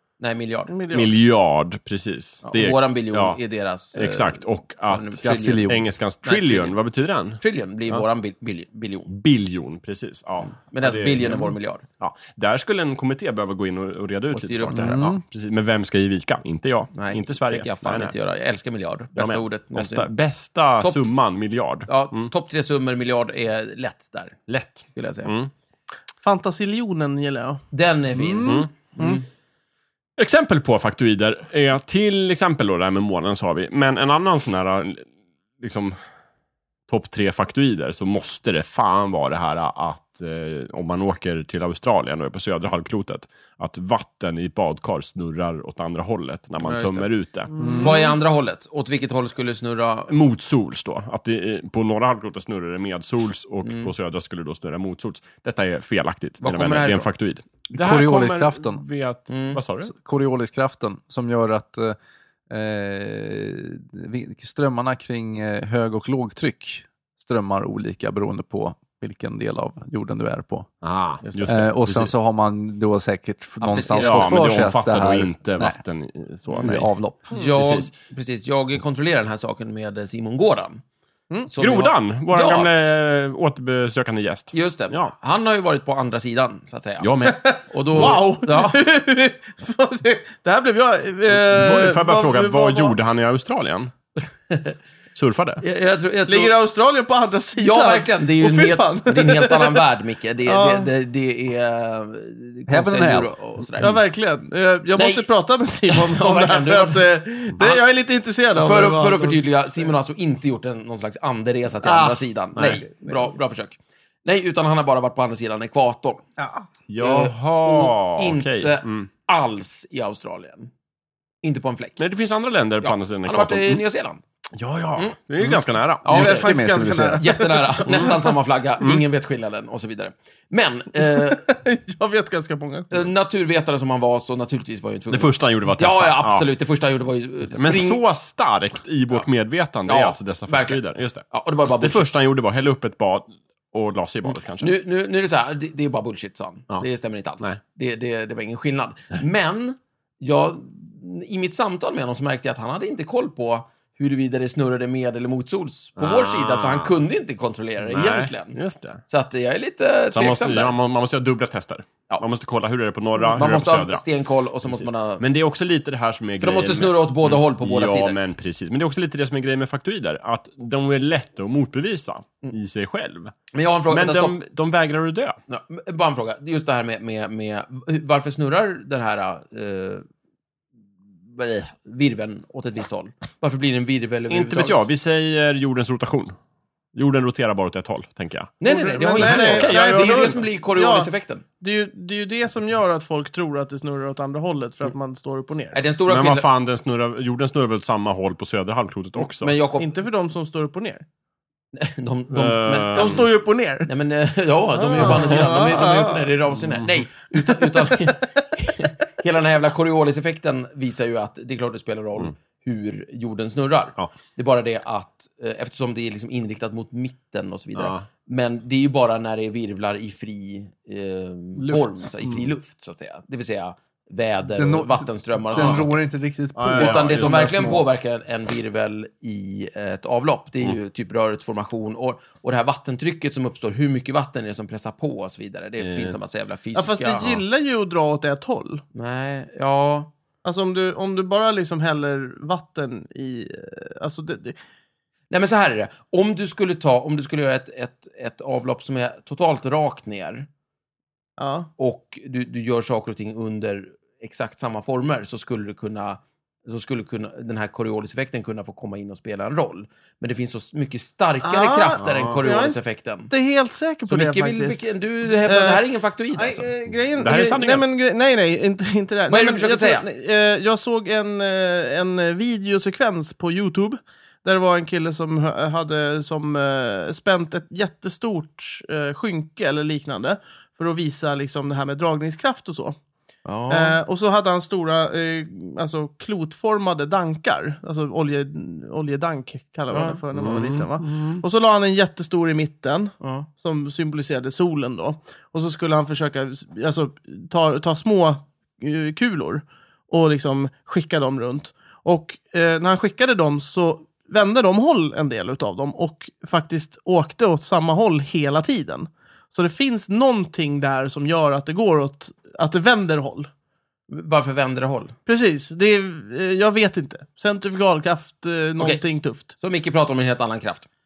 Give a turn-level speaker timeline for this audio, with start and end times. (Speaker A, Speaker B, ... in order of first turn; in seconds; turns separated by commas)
Speaker A: 0.2-0.7, Speaker B: 0.7-1.1, Speaker C: 0.9-3.4, Speaker A: 2.4-5.7, Speaker C: 3.9-7.4, Speaker D: 5.2-5.8, Speaker A: 6.2-6.8, Speaker A: 7.4-9.1, Speaker C: 9.1-18.1, Speaker A: 10.4-11.8, Speaker A: 14.3-15.0, Speaker D: 14.8-15.2, Speaker A: 16.9-20.1, Speaker C: 19.2-22.3, Speaker A: 20.8-21.1, Speaker A: 21.9-24.4, Speaker C: 24.5-25.5, Speaker A: 24.9-25.3, Speaker B: 26.2-27.6, Speaker A: 27.7-29.2, Speaker D: 28.2-28.7, Speaker C: 28.4-28.7, Speaker C: 30.2-35.0, Speaker C: 35.6-36.0, Speaker C: 36.9-47.5, Speaker A: 46.6-47.1, Speaker B: 47.5-48.1, Speaker D: 47.6-48.0, Speaker A: 47.8-50.1, Speaker C: 50.1-59.9, Speaker A: 53.6-53.9, Speaker A: 56.4-57.1, Speaker D: 57.7-58.8, Speaker A: 59.3-59.6, Speaker D: 59.9-62.0, Speaker D: 62.5-70.7, Speaker C: 70.8-72.1, Speaker A: 71.2-71.6, Speaker D: 71.5-75.8, Speaker A: 73.6-74.5, Speaker C: 74.0-76.9, Speaker D: 76.6-77.3, Speaker A: 77.3-80.8, Speaker C: 77.5-77.9, Speaker A: 81.5-82.7, Speaker C: 81.6-85.1, Speaker A: 84.5-88.8, Speaker C: 87.0-88.2, Speaker B: 87.3-92.9, Speaker C: 91.3-93.9, Speaker C: 95.2-95.6, Speaker A: 95.6-96.5, Speaker B: 96.3-99.8, Speaker A: 97.6-104.0, Speaker B: 100.5-100.9, Speaker D: 102.7-103.3, Speaker B: 103.8-109.5, Speaker A: 105.0-105.3, Speaker A: 105.9-107.1, Speaker A: 108.6-116.2, Speaker B: 111.8-112.2, Speaker C: 112.6-112.8, Speaker B: 116.4-116.7, Speaker C: 116.9-119.1, Speaker A: 117.0-120.7, Speaker A: 121.4-122.0, Speaker C: 122.0-123.8, Speaker A: 122.8-124.2, Speaker C: 124.6-126.2, Speaker A: 126.0-131.4, Speaker D: 126.1-127.2, Speaker B: 126.1-128.3, Speaker B: 131.4-133.1, Speaker A: 132.9-138.0, Speaker C: 135.1-136.5, Speaker C: 137.5-141.3, Speaker A: 139.9-142.1, Speaker C: 141.8-144.8, Speaker A: 144.3-160.7, Speaker C: 156.0-156.9, Speaker C: 157.8-159.0, Speaker C: 160.1-164.0, Speaker A: 163.2-165.2, Speaker C: 164.6-173.3, Speaker A: 166.4-168.2, Speaker A: 173.5-174.4, Speaker C: 173.9-175.4, Speaker A: 175.5-180.1, Speaker A: 181.3-184.8, Speaker C: 184.3-186.3, Speaker C: 186.9-190.5, Speaker A: 188.6-191.4, Speaker B: 188.6-195.8, Speaker A: 195.7-196.5, Speaker C: 196.1-199.5, Speaker A: 199.4-199.9, Speaker B: 199.8-201.1, Speaker A: 201.7-203.2, Speaker C: 202.3-203.3, Speaker B: 202.9-203.9, Speaker A: 203.9-225.9, Speaker B: 204.8-206.3, Speaker C: 205.1-205.5, Speaker C: 206.6-206.9, Speaker B: 207.8-208.1, Speaker C: 217.8-218.1, Speaker C: 221.6-221.9, Speaker D: 224.6-227.6, Speaker C: 225.6-225.9, Speaker C: 226.6-227.9, Speaker A: 226.7-237.4, Speaker C: 235.8-236.2, Speaker B: 236.8-238.8, Speaker A: 238.9-240.1, Speaker B: 240.4-244.6, Speaker A: 245.3-250.5, Speaker B: 251.4-251.7, Speaker A: 251.8-263.3, Speaker B: 261.4-262.8, Speaker C: 262.0-262.4, Speaker B: 263.3-264.8, Speaker A: 264.1-266.7, Speaker B: 265.4-265.8, Speaker B: 266.4-283.0, Speaker C: 267.2-267.8, Speaker A: 269.3-270.1, Speaker A: 283.4-284.0, Speaker B: 283.7-313.5, Speaker A: 289.9-290.2, Speaker C: 290.3-291.4, Speaker A: 293.2-293.5, Speaker A: 314.1-315.1, Speaker B: 315.3-319.5, Speaker A: 318.8-320.9